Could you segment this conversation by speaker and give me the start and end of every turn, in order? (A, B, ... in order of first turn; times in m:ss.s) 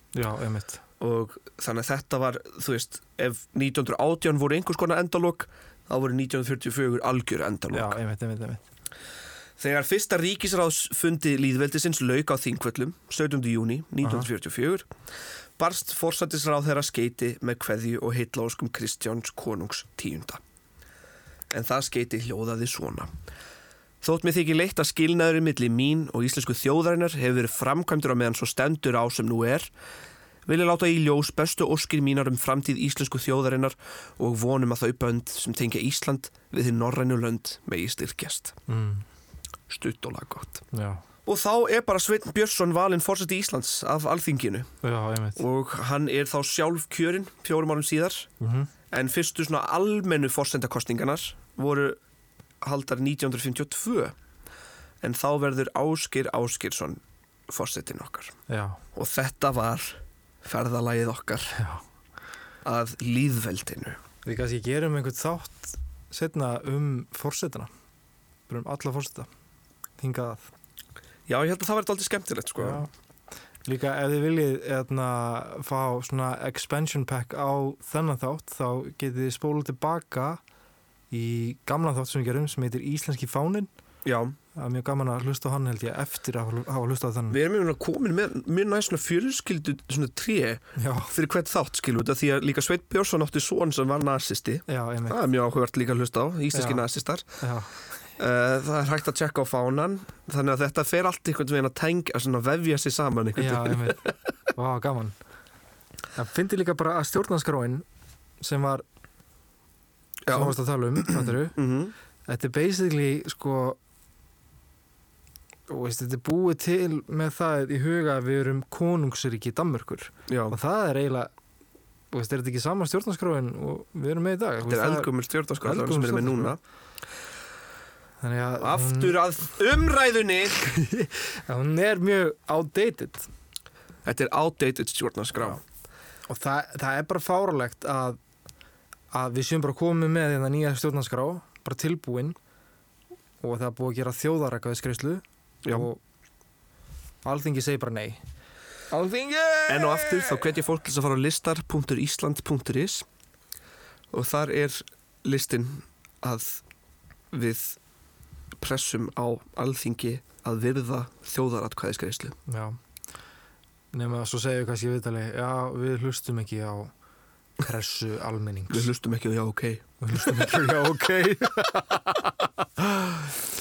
0:00.1-0:00.8 A
0:01.0-0:08.0 B
0:07.7-0:08.6 A
0:09.6-0:14.9 B
0:15.6-0:20.4 B
0:21.5-0:23.1 B
0:24.0-0:29.7 B
0:30.5-0:38.6 B
0:38.7-0:39.0 A
0:39.7-0:40.7 B
0:40.7-0:41.0 A
0:41.2-0:44.7 B
0:44.8-0:45.4 A
0:45.4-0:48.3 B
0:48.4-0:48.7 A
0:48.9-0:52.0 B
0:52.6-0:54.2 B
0:55.0-0:58.4 B
0:58.5-0:58.8 A
0:58.9-1:01.6 B
1:01.6-1:01.8 A
1:02.6-1:04.0 B
1:04.2-1:07.7 A
1:08.5-1:09.3 A
1:10.0-1:10.5 A
1:11.3-1:12.8 B
1:12.6-1:12.9 A
1:13.6-1:20.4 A
1:21.1-1:23.7 A
1:24.0-1:24.4 B
1:24.6-1:27.4 A
1:27.3-1:37.3 B
1:30.8-1:31.1 A
1:34.7-1:35.2 A
1:36.5-1:36.8 A
1:37.4-1:37.7 A
1:38.2-1:44.0 B
1:43.4-1:45.2 A
1:46.2-1:47.8 A
1:48.4-1:48.8 A
1:50.3-1:51.9 B
1:50.3-1:51.6 A
1:52.3-1:53.8 A
1:55.7-2:01.3 A
2:00.3-2:00.6 B
2:02.1-2:05.1 A
2:04.7-2:06.6 B
2:05.6-2:06.6 A
2:08.2-2:09.2 A
2:08.6-2:10.6 B
2:10.7-2:13.3 A
2:14.0-2:15.6 B
2:16.3-2:18.2 A
2:19.1-2:22.4 A
2:23.4-2:26.0 A
2:25.6-2:25.9 B
2:27.2-2:28.2 A
2:28.9-2:30.5 A
2:29.7-2:33.1 B
2:34.1-2:36.6 B
2:37.3-2:37.8 B
2:38.6-2:42.4 B
2:42.5-2:42.8 A
2:43.9-2:46.9 A
2:47.6-2:48.9 A
2:48.7-2:50.7 B
2:50.0-2:53.2 A